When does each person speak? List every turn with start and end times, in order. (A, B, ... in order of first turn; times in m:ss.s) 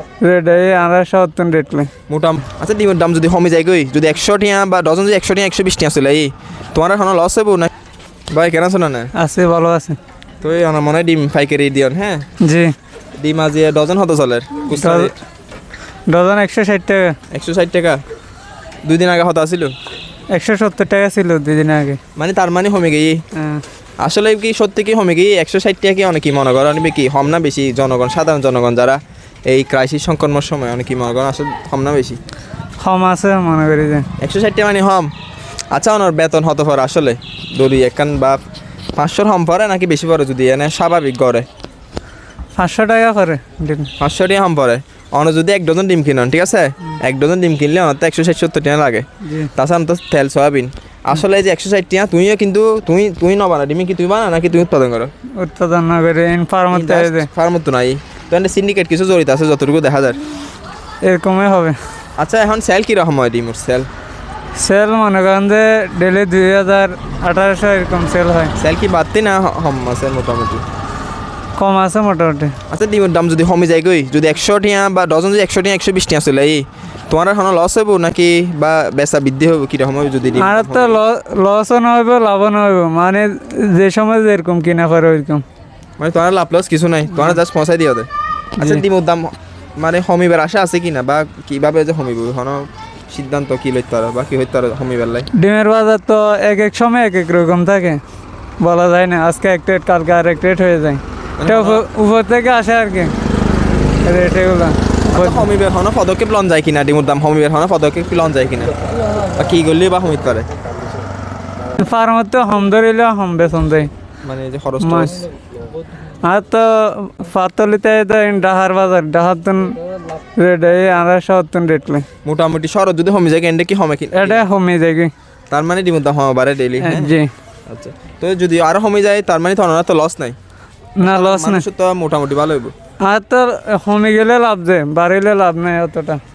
0:00.2-0:01.9 A
0:02.1-0:07.7 B
0:08.3-0:09.1 B
0:09.1-0:10.0 A
0:10.4-0:12.3 B
0:12.4-0:12.7 A
0:13.2-0:15.2 B
0:14.7-0:15.1 A
0:16.1-0:17.2 A
0:17.3-0:18.0 B
0:18.8-0:19.7 B
0:20.3-0:22.0 A
0:22.2-0:23.2 B
0:23.4-0:23.6 A
0:24.0-0:32.2 B
0:32.8-0:34.1 A
0:34.2-0:35.1 B
0:35.7-0:38.4 B
0:39.0-0:41.5 B
0:42.6-0:43.9 A
0:44.0-0:55.1 B
0:49.2-0:49.5 A
0:55.4-0:57.3 A
0:56.7-1:00.2 B
1:01.0-1:01.8 A
1:02.2-1:03.9 B
1:04.6-1:08.5 A
1:08.6-1:10.6 B
1:11.6-1:12.6 A
1:12.7-1:21.0 B
1:20.4-1:25.4 A
1:26.0-1:28.1 B
1:28.6-1:35.3 B
1:35.3-1:38.0 A
1:38.6-1:43.1 A
1:41.4-1:41.8 B
1:44.0-1:45.5 A
1:45.1-1:48.7 B
1:49.2-1:50.5 B
1:51.7-1:53.9 A
1:54.2-1:55.2 B
1:54.8-1:55.2 A
1:56.2-1:59.8 A
2:00.4-2:02.1 A
2:02.2-2:04.4 B
2:04.1-2:05.1 A
2:05.5-2:10.4 B
2:06.8-2:07.3 A
2:11.0-2:11.7 A
2:11.0-2:12.8 B
2:13.0-2:16.2 A